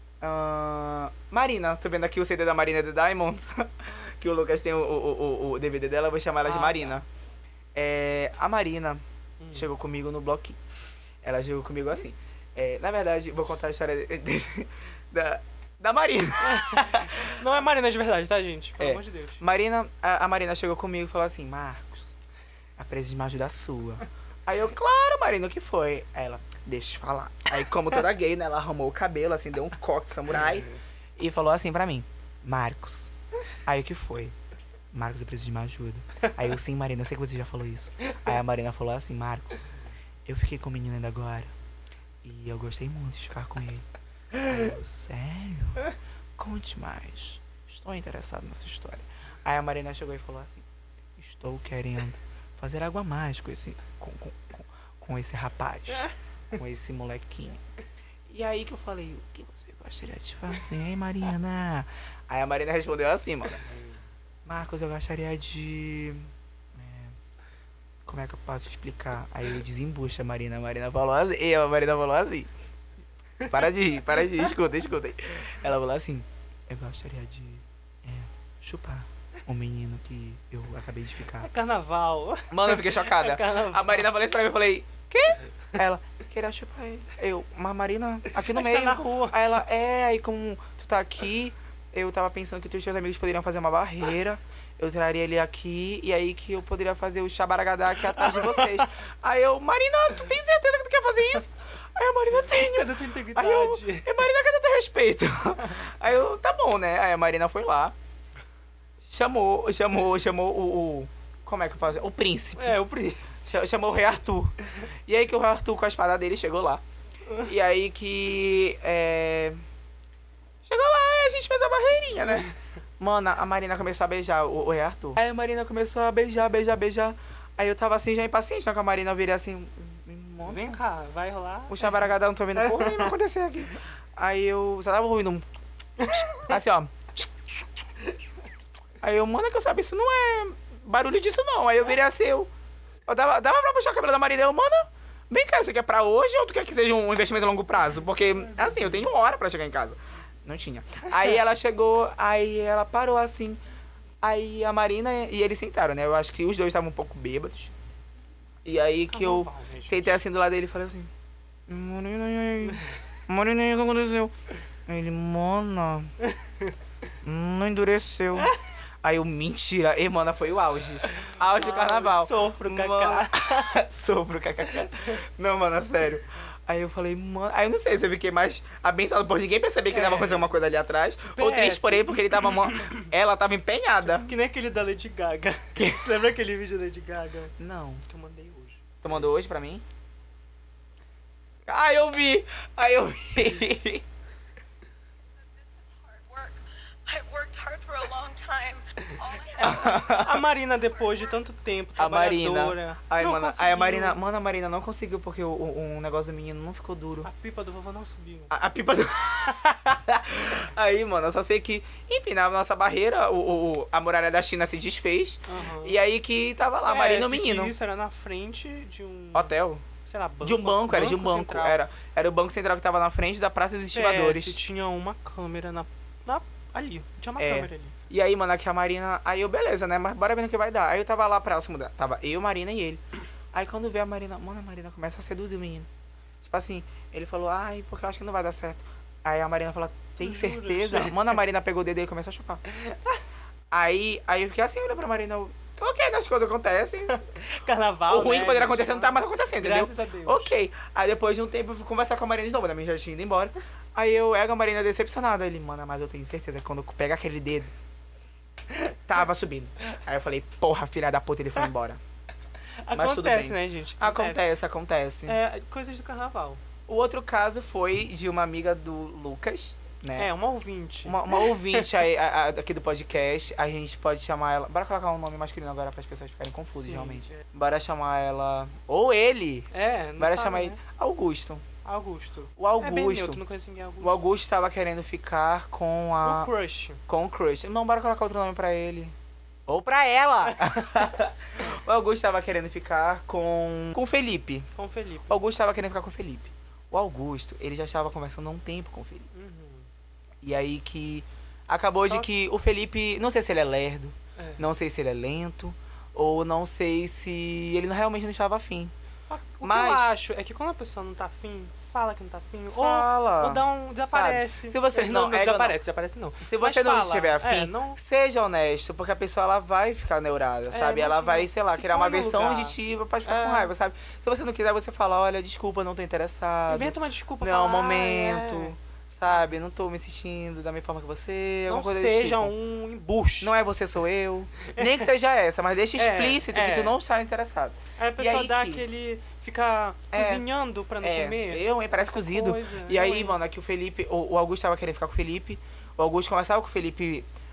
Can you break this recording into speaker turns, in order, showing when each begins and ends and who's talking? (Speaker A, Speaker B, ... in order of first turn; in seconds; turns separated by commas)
Speaker A: 0.2-7.0, Speaker B: 6.4-7.0, Speaker A: 7.7-9.0, Speaker B: 9.4-9.6, Speaker A: 9.5-10.6, Speaker A: 11.2-17.4, Speaker B: 16.4-19.4, Speaker A: 18.8-22.1, Speaker A: 22.8-33.1, Speaker A: 33.6-34.3, Speaker A: 34.9-39.7, Speaker A: 40.2-41.5, Speaker A: 42.2-50.6, Speaker A: 51.2-57.6, Speaker A: 58.3-63.6, Speaker A: 64.4-67.2, Speaker A: 68.0-72.5, Speaker A: 73.5-81.5, Speaker B: 81.4-84.1, Speaker A: 82.5-107.9, Speaker B: 88.3-89.4, Speaker B: 98.1-98.8, Speaker B: 102.3-104.2, Speaker A: 109.0-112.8, Speaker B: 112.6-113.5, Speaker A: 113.4-116.8, Speaker A: 117.3-119.6, Speaker A: 120.6-130.8, Speaker B: 130.4-132.1, Speaker A: 131.7-135.4, Speaker B: 132.7-133.1, Speaker B: 136.0-136.5, Speaker A: 136.4-136.9, Speaker A: 139.0-142.5, Speaker A: 143.1-153.6, Speaker A: 154.2-157.7, Speaker A: 158.6-161.1, Speaker B: 159.1-160.2, Speaker A: 161.7-164.3, Speaker A: 164.9-166.1, Speaker B: 166.2-166.7, Speaker A: 167.2-184.3, Speaker B: 171.0-173.8, Speaker B: 179.9-180.5, Speaker B: 181.3-183.1, Speaker B: 184.0-187.5, Speaker A: 185.8-186.1, Speaker A: 187.6-188.0, Speaker B: 188.1-188.8, Speaker A: 189.0-189.8, Speaker A: 191.7-194.0, Speaker C: 196.1-196.5, Speaker C: 197.1-198.6, Speaker B: 197.4-204.2, Speaker A: 199.6-200.4, Speaker A: 202.0-207.3, Speaker B: 207.2-208.5, Speaker A: 208.5-217.7, Speaker B: 215.5-216.0, Speaker B: 216.8-219.5, Speaker A: 219.3-219.8, Speaker B: 220.0-221.8, Speaker A: 220.4-224.6, Speaker B: 223.9-227.9, Speaker A: 227.4-233.0, Speaker A: 233.5-235.9, Speaker A: 236.4-242.6, Speaker B: 240.2-241.3, Speaker B: 242.7-243.0, Speaker A: 243.7-247.2, Speaker B: 247.1-250.6, Speaker A: 248.1-257.7, Speaker A: 259.1-262.0, Speaker B: 262.8-264.4, Speaker A: 262.9-265.4, Speaker B: 265.2-266.6, Speaker A: 266.9-270.3, Speaker B: 270.1-271.9, Speaker A: 271.0-281.6, Speaker B: 276.7-277.4, Speaker B: 279.7-280.8, Speaker B: 281.8-284.2, Speaker A: 282.6-283.4, Speaker A: 284.0-286.5, Speaker B: 286.2-287.0, Speaker A: 287.1-289.1, Speaker A: 289.7-294.7, Speaker B: 290.5-290.9, Speaker B: 294.7-295.4, Speaker A: 295.3-299.3, Speaker B: 299.3-299.9, Speaker A: 300.4-308.9, Speaker B: 301.8-302.3, Speaker B: 304.4-304.6, Speaker B: 309.3-318.0, Speaker A: 309.6-310.2, Speaker A: 312.7-315.8, Speaker A: 316.4-332.5, Speaker B: 320.7-323.7, Speaker B: 326.7-328.8, Speaker B: 331.7-333.5, Speaker A: 333.4-338.8, Speaker B: 334.6-335.1, Speaker B: 335.9-337.0, Speaker B: 338.0-343.4, Speaker A: 340.1-340.4, Speaker A: 341.0-347.2